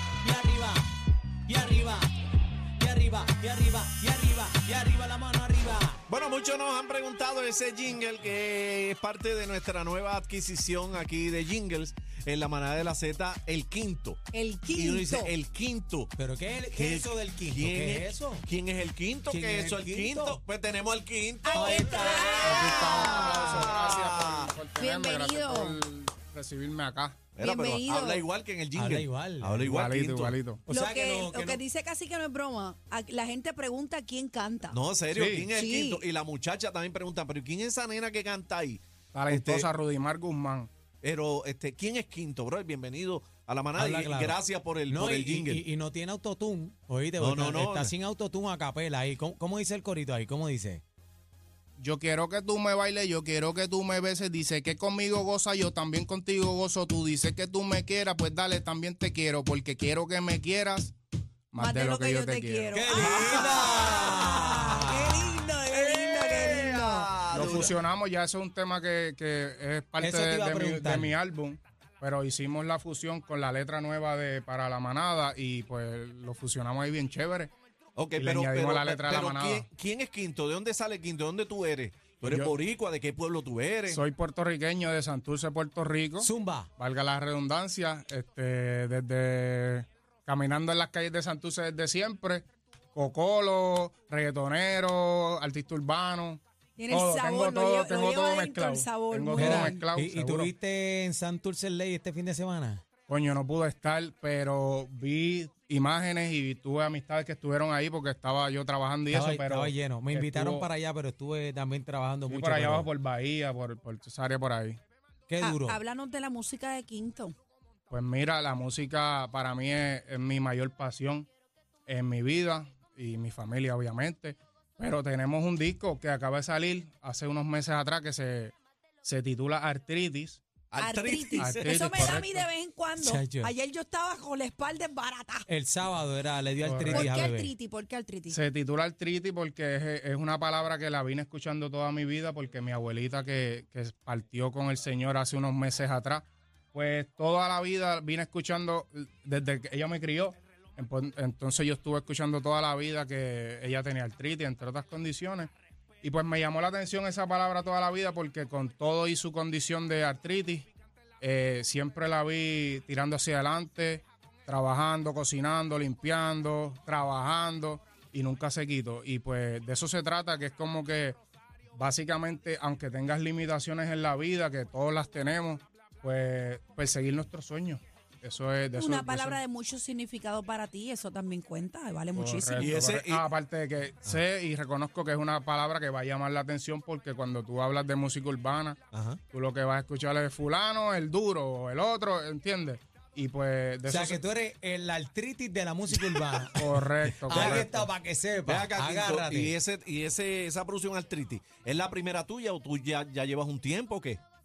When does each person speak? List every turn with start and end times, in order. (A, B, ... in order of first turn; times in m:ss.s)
0:00.2-0:00.9 A
0:01.5-0:02.1 A
0:02.8-0:06.0 A
0:06.1-0:14.2 B
0:14.3-0:15.3 C
0:14.7-0:16.1 B
0:16.2-0:18.4 A
0:16.7-0:24.5 B
0:19.3-0:20.4 A
0:21.4-0:23.5 C
0:21.5-0:23.6 A
0:22.4-0:27.3 D
0:24.8-0:25.8 C
0:27.3-0:30.4 B
0:27.4-0:28.2 C
0:28.8-0:29.6 A
0:29.6-0:30.6 D
0:30.7-0:31.6 A
0:30.7-0:34.8 C
0:34.7-0:39.7 B
0:35.1-0:35.5 D
0:35.5-0:36.0 C
0:39.1-0:40.7 D
0:41.0-0:45.6 B
0:43.8-0:50.8 A
0:47.2-0:47.9 B
0:51.8-1:01.0 D
1:01.5-1:02.8 D
1:01.6-1:07.1 C
1:02.7-1:05.2 A
1:02.9-1:04.3 B
1:05.7-1:07.8 B
1:07.3-1:17.5 D
1:10.0-1:11.2 A
1:18.0-1:24.0 B
1:18.2-1:19.6 D
1:22.2-1:22.5 D
1:23.9-1:40.5 D
1:26.2-1:26.7 A
1:36.8-1:39.8 C
1:39.4-1:42.8 A
1:43.1-1:50.7 D
1:49.1-1:52.9 A
1:52.3-1:54.8 D
1:55.3-1:55.8 A
1:55.4-1:57.4 C
1:57.9-2:01.3 D
2:01.9-2:10.5 D
2:10.7-2:12.1 B
2:10.8-2:15.5 C
2:11.4-2:12.5 D
2:13.0-2:13.5 A
2:15.5-2:17.5 A
2:16.6-2:17.4 D
2:16.9-2:18.4 C
2:18.3-2:35.5 D
2:36.0-2:40.7 D
2:41.2-2:51.2 D
2:51.8-2:59.4 D
2:58.7-3:02.7 C
3:02.1-3:14.2 D
3:02.6-3:03.3 B
3:08.9-3:09.2 B
3:13.9-3:16.6 A
3:16.0-3:16.4 B
3:16.5-3:17.7 D
3:17.2-3:17.9 B
3:17.3-3:19.6 A
3:18.5-3:24.2 B